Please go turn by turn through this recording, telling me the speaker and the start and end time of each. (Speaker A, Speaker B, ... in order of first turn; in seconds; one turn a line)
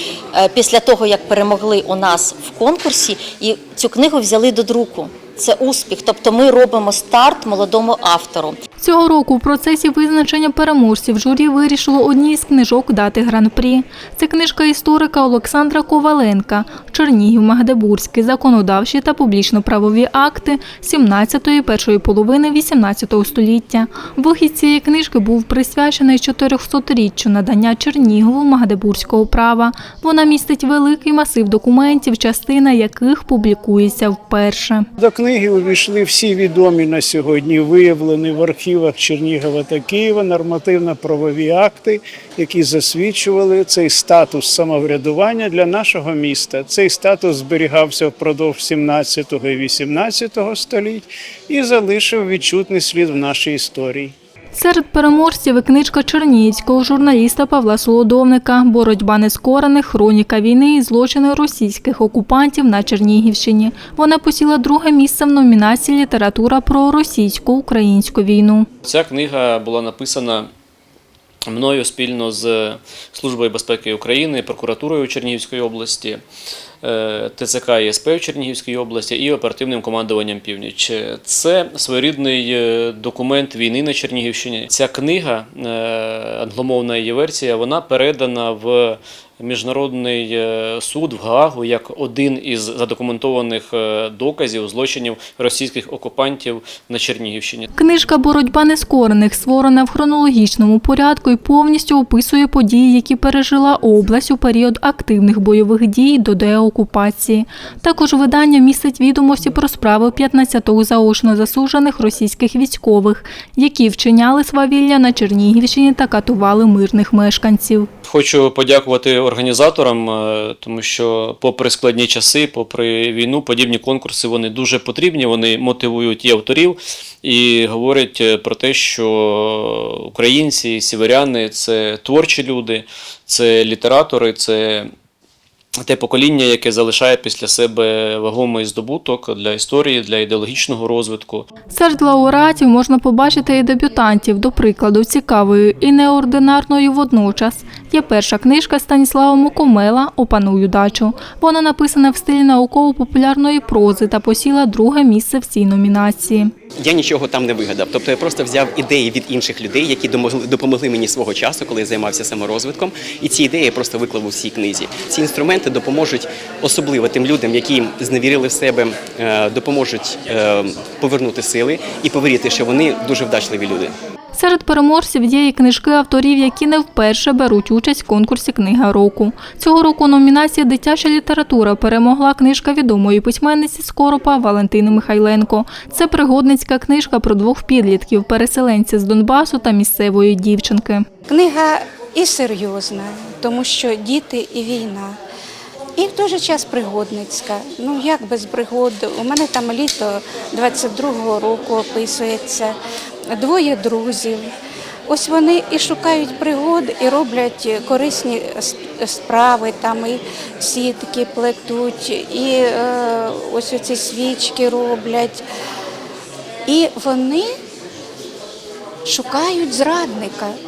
Speaker A: 0.3-8.6
Speaker B: 8.8-34.8
Speaker C: 35.0-54.1
Speaker B: 54.5-68.7
Speaker D: 68.8-70.5
Speaker D: 71.5-76.2
Speaker D: 76.8-97.7
Speaker B: 97.7-117.9
Speaker D: 118.0-134.9
Speaker D: 135.8-141.5
Speaker B: 141.7-156.5
Speaker E: 156.8-173.9
Speaker B: 174.3-191.0
Speaker F: 191.3-195.2
Speaker F: 196.0-202.8
Speaker F: 203.3-204.4
Speaker F: 205.1-215.4
Speaker F: 216.7-217.5
Speaker F: 219.0-220.5